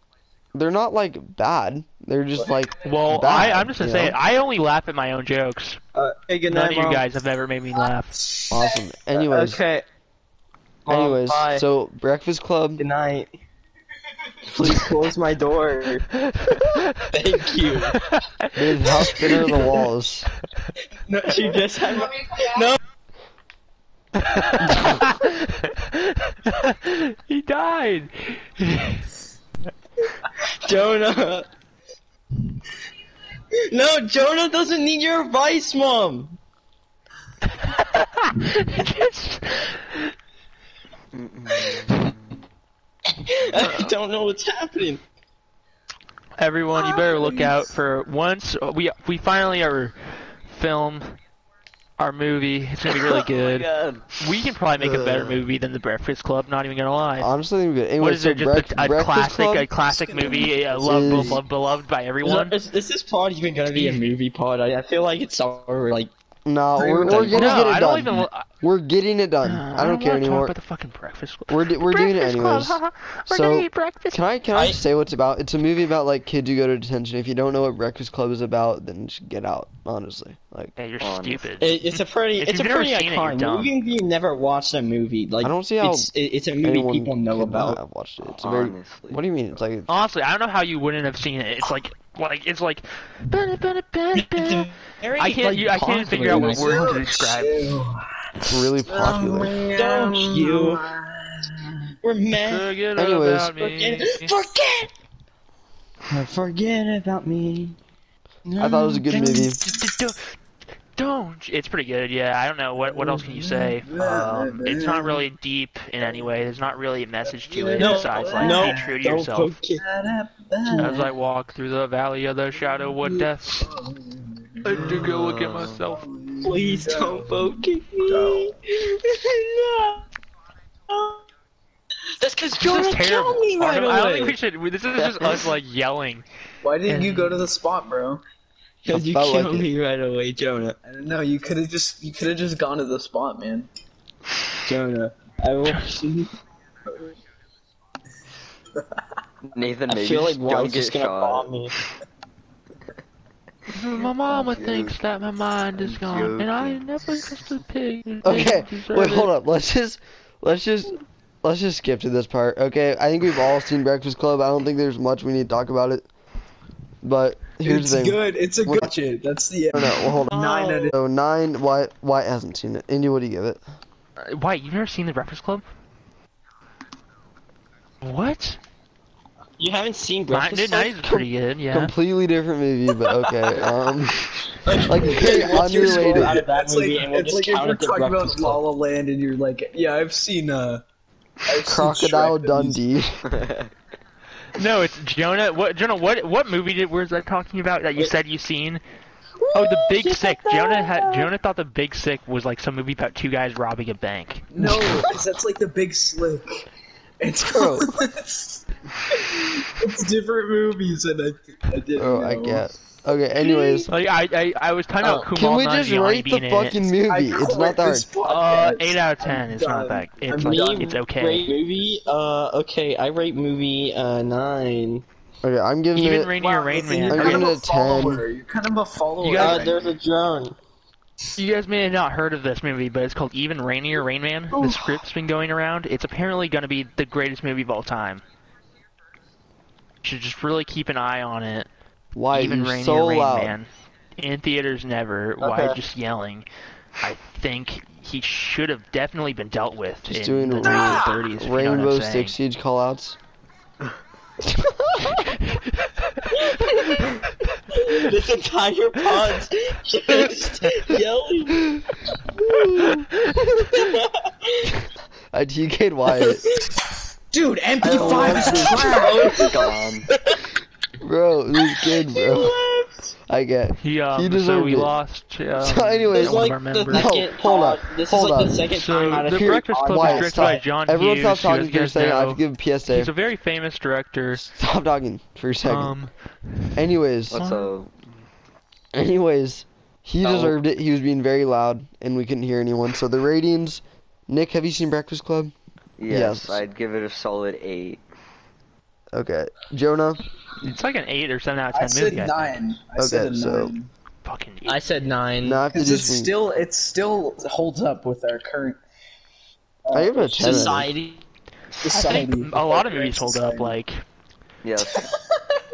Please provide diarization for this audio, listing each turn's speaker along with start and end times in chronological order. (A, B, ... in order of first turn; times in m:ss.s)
0:00.5-0:04.2 A
0:02.8-0:05.8 B
0:06.0-0:07.1 C
0:06.5-0:08.2 B
0:08.5-0:09.6 A
0:09.2-0:09.8 C
0:10.8-0:11.7 C
0:10.9-0:12.8 A
0:12.8-0:13.3 C
0:14.4-0:16.1 C
0:16.3-0:17.0 B
0:17.1-0:18.0 C
0:17.9-0:19.7 B
0:18.6-0:20.3 A
0:21.1-0:22.8 C
0:24.2-0:29.0 B
0:30.6-0:31.5 C
0:33.7-0:36.4 C
0:37.6-0:39.8 B
0:41.1-0:42.1 D
0:43.3-0:45.0 C
0:43.6-0:43.9 D
0:46.4-0:51.2 B
0:46.8-0:47.6 E
0:52.0-0:53.7 B
0:52.9-0:54.1 D
0:54.2-0:57.3 B
0:54.8-0:55.4 A
0:57.2-0:59.7 A
0:58.0-1:02.6 B
0:59.8-1:01.4 E
1:00.8-1:01.4 A
1:02.2-1:06.1 C
1:03.7-1:04.0 B
1:06.5-1:10.6 A
1:06.8-1:08.1 E
1:07.3-1:08.5 B
1:09.4-1:14.2 B
1:11.5-1:20.8 A
1:14.5-1:14.8 C
1:20.8-1:23.7 B
1:21.0-1:21.5 D
1:21.6-1:27.8 C
1:25.4-1:29.9 A
1:28.2-1:29.6 D
1:29.9-1:37.8 B
1:34.2-1:36.9 C
1:36.2-1:41.8 E
1:38.5-1:39.6 A
1:39.7-1:40.8 C
1:42.0-1:42.7 C
1:42.4-1:44.4 B
1:43.0-1:43.6 A
1:43.6-1:44.9 C
1:46.1-1:47.8 C
1:48.5-1:49.7 C
1:48.6-1:49.6 A
1:49.7-1:50.2 B
1:51.0-1:59.6 B
1:52.8-1:55.3 E
1:57.2-1:59.2 E
1:57.8-1:59.8 C
1:59.8-2:01.1 E
2:00.7-2:03.7 B
2:02.6-2:05.3 E
2:04.6-2:06.0 B
2:05.1-2:05.9 D
2:05.8-2:08.6 E
2:06.4-2:10.0 C
2:10.9-2:11.2 C
2:12.2-2:14.4 C
2:12.5-2:16.2 B
2:15.0-2:15.5 C
2:16.6-2:18.2 E
2:16.9-2:17.5 B
2:18.8-2:20.8 C
2:18.9-2:19.7 A
2:20.8-2:23.7 E
2:24.6-2:26.3 C
2:29.5-2:31.6 D
2:29.9-2:31.7 C
2:33.7-2:39.3 B
2:34.3-2:35.0 D
2:35.8-2:36.8 D
2:38.2-2:46.1 A
2:47.0-2:48.9 A
2:47.6-2:50.9 E
2:49.7-2:53.6 A
2:50.3-2:50.8 C
2:54.2-2:55.6 B
2:58.0-2:58.6 B
2:59.6-3:01.0 C
3:00.3-3:01.9 B
3:01.0-3:04.2 A
3:04.6-3:08.6 C
3:04.8-3:06.5 A
3:05.0-3:10.8 E
3:11.5-3:12.8 E
3:11.6-3:13.2 A
3:14.6-3:18.8 B
3:19.4-3:21.3 C
3:19.5-3:24.5 B
3:24.5-3:26.6 E
3:27.2-3:32.7 E
3:27.5-3:27.9 A
3:32.0-3:33.9 A
3:33.4-3:33.8 E
3:33.9-3:36.8 B
3:35.0-3:35.3 C
3:35.3-3:38.1 A
3:37.1-3:41.0 E
3:38.2-3:41.5 B
3:40.4-3:45.0 C
3:45.4-3:46.3 A
3:46.0-3:47.5 B
3:46.4-3:49.9 E
3:47.1-3:48.3 A
3:49.2-3:49.6 B
3:49.4-3:50.6 C
3:51.4-3:58.2 B
3:54.5-3:55.0 C
4:00.0-4:01.7 B
4:02.2-4:03.6 A
4:02.3-4:06.5 B
4:05.4-4:05.8 C
4:07.0-4:12.4 B
4:10.1-4:13.2 A
4:14.4-4:15.2 A
4:16.4-4:17.0 C
4:17.8-4:21.7 C
4:22.5-4:23.0 A
4:23.2-4:24.7 C
4:25.3-4:26.4 A
4:27.3-4:30.4 E
4:27.8-4:29.5 C
4:28.0-4:28.4 D
4:29.4-4:30.1 D
4:31.0-4:32.6 A
4:32.3-4:33.1 C
4:33.3-4:35.0 A
4:33.8-4:37.1 B
4:35.6-4:38.6 A
4:36.2-4:40.4 C
4:38.7-4:44.4 B
4:39.2-4:43.1 A
4:44.3-4:46.0 A
4:45.6-4:46.1 B
4:46.8-4:47.4 A
4:47.3-4:48.1 D
4:47.3-4:47.7 B
4:49.0-4:55.5 A
4:50.2-4:50.5 D
4:56.0-4:58.0 D
4:56.1-4:56.7 A
4:59.1-5:00.2 A
5:00.6-5:02.6 B
5:01.7-5:03.9 E
5:03.0-5:03.8 A
5:04.2-5:04.8 B
5:04.6-5:05.6 C
5:05.4-5:06.3 A
5:05.7-5:08.8 E
5:09.9-5:10.9 E
5:09.9-5:10.9 A
5:10.4-5:11.2 C
5:11.8-5:13.8 E
5:11.9-5:14.0 B
5:14.6-5:15.0 D
5:14.8-5:15.6 E